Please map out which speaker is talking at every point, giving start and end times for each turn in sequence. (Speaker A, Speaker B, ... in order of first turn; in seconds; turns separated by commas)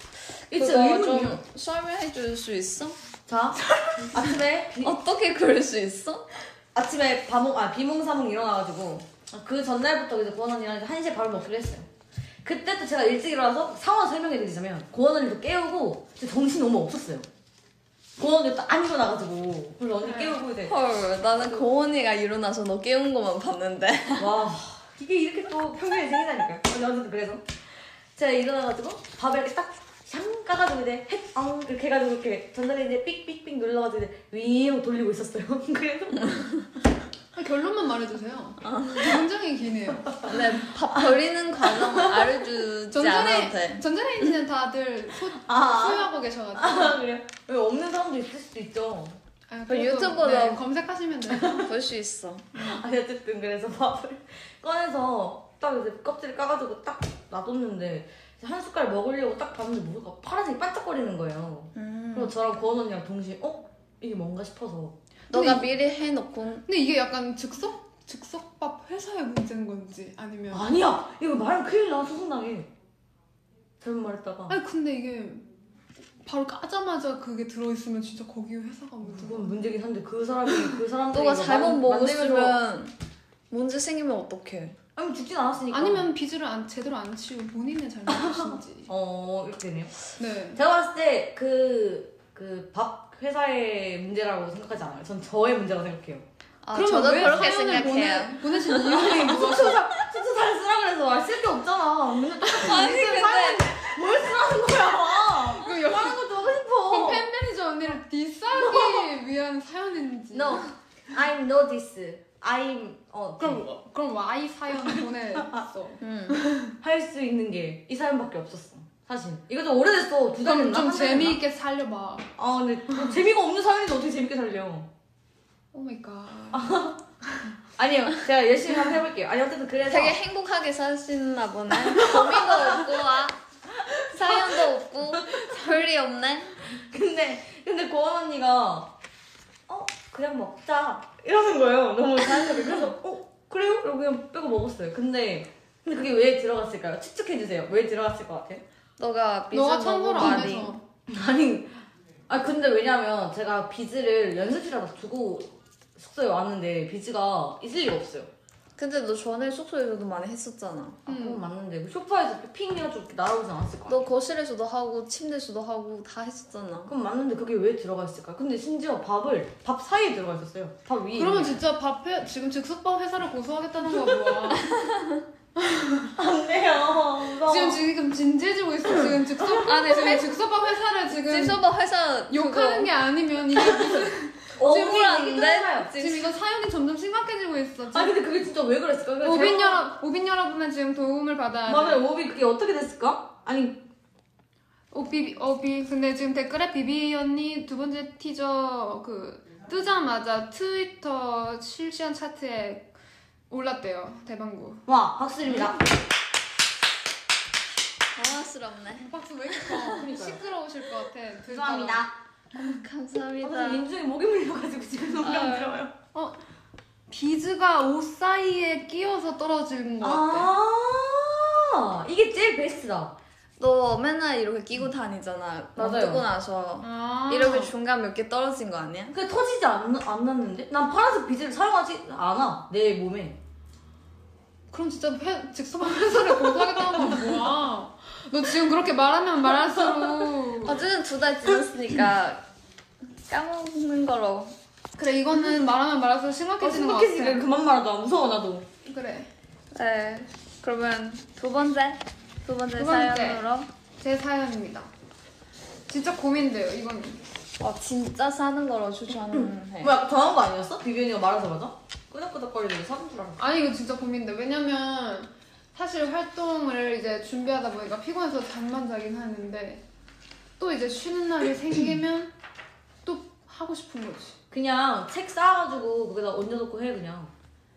Speaker A: 0.5-1.4, Speaker B: 0.5-3.0, Speaker A: 3.3-5.0, Speaker B: 4.8-6.3, Speaker A: 6.7-11.9, Speaker A: 12.4-17.3, Speaker A: 18.2-20.7, Speaker C: 20.0-20.4, Speaker B: 20.6-24.4, Speaker A: 24.2-27.5, Speaker A: 28.1-36.6, Speaker C: 37.3-40.2, Speaker B: 38.6-39.2, Speaker B: 40.2-43.8, Speaker A: 41.8-42.2, Speaker C: 42.9-47.0, Speaker A: 45.4-49.2, Speaker C: 49.5-51.6, Speaker B: 49.7-50.6, Speaker A: 51.3-51.7, Speaker B: 51.4-52.6, Speaker A: 52.5-65.0, Speaker B: 61.8-62.3, Speaker B: 65.3-66.6, Speaker C: 65.3-65.6, Speaker C: 66.7-70.6, Speaker A: 70.5-72.7, Speaker A: 73.8-74.5, Speaker C: 74.5-75.5, Speaker C: 76.2-79.6, Speaker A: 79.0-82.6, Speaker B: 81.1-82.9, Speaker B: 83.5-84.8, Speaker A: 85.0-86.1, Speaker C: 85.7-88.9, Speaker A: 88.1-96.2, Speaker C: 90.2-90.6, Speaker B: 96.6-99.0, Speaker C: 96.7-99.9, Speaker A: 98.9-107.3, Speaker B: 102.5-103.7, Speaker C: 105.2-110.7, Speaker A: 108.5-109.1, Speaker A: 110.3-113.7, Speaker C: 113.4-116.7, Speaker A: 115.3-115.6, Speaker B: 116.0-116.4, Speaker A: 116.7-121.4, Speaker C: 120.4-122.3, Speaker A: 122.4-124.9, Speaker C: 125.7-126.8, Speaker A: 126.5-127.0, Speaker A: 127.8-130.2, Speaker B: 129.9-133.4, Speaker A: 131.8-132.9, Speaker A: 133.8-135.5, Speaker B: 134.1-136.6, Speaker A: 136.6-138.9, Speaker A: 139.7-148.6, Speaker B: 149.0-150.7, Speaker C: 149.5-150.8, Speaker A: 150.2-150.5, Speaker A: 151.1-151.7, Speaker A: 152.3-158.3, Speaker B: 158.8-161.0, Speaker A: 161.1-164.0, Speaker C: 161.1-161.4, Speaker B: 163.9-166.9, Speaker A: 166.9-171.6, Speaker C: 171.1-174.7, Speaker A: 174.0-174.4, Speaker B: 174.6-175.2, Speaker C: 175.6-176.1, Speaker A: 176.2-177.8, Speaker C: 177.4-181.6, Speaker B: 179.6-180.4, Speaker B: 181.1-182.9, Speaker C: 182.3-184.8, Speaker A: 184.6-185.9, Speaker B: 184.6-186.3, Speaker C: 185.9-188.2, Speaker A: 187.9-189.9, Speaker C: 189.2-192.0, Speaker A: 191.7-193.8, Speaker C: 194.9-202.9, Speaker C: 203.5-204.8, Speaker A: 204.9-205.9, Speaker B: 205.5-205.8, Speaker B: 208.2-209.1, Speaker C: 209.0-212.0, Speaker B: 209.7-209.9, Speaker A: 209.8-210.4, Speaker A: 211.5-212.2, Speaker B: 212.5-213.9, Speaker A: 213.4-215.9, Speaker B: 215.2-215.8, Speaker C: 216.1-216.4, Speaker C: 217.1-220.5, Speaker A: 220.0-223.2, Speaker B: 223.6-229.2, Speaker A: 225.8-226.2, Speaker C: 226.8-227.7, Speaker A: 229.1-233.4, Speaker C: 234.7-240.8, Speaker A: 236.5-237.2, Speaker A: 239.9-240.3, Speaker B: 240.6-242.4, Speaker B: 243.2-244.5, Speaker C: 244.9-247.4, Speaker A: 246.6-248.7, Speaker C: 248.8-249.3, Speaker B: 249.7-253.7, Speaker C: 252.8-253.4, Speaker C: 254.0-254.9, Speaker C: 255.9-257.2, Speaker B: 257.6-260.0, Speaker A: 259.3-263.5, Speaker C: 263.4-269.8, Speaker C: 270.6-272.3, Speaker C: 273.0-274.4, Speaker A: 274.5-277.3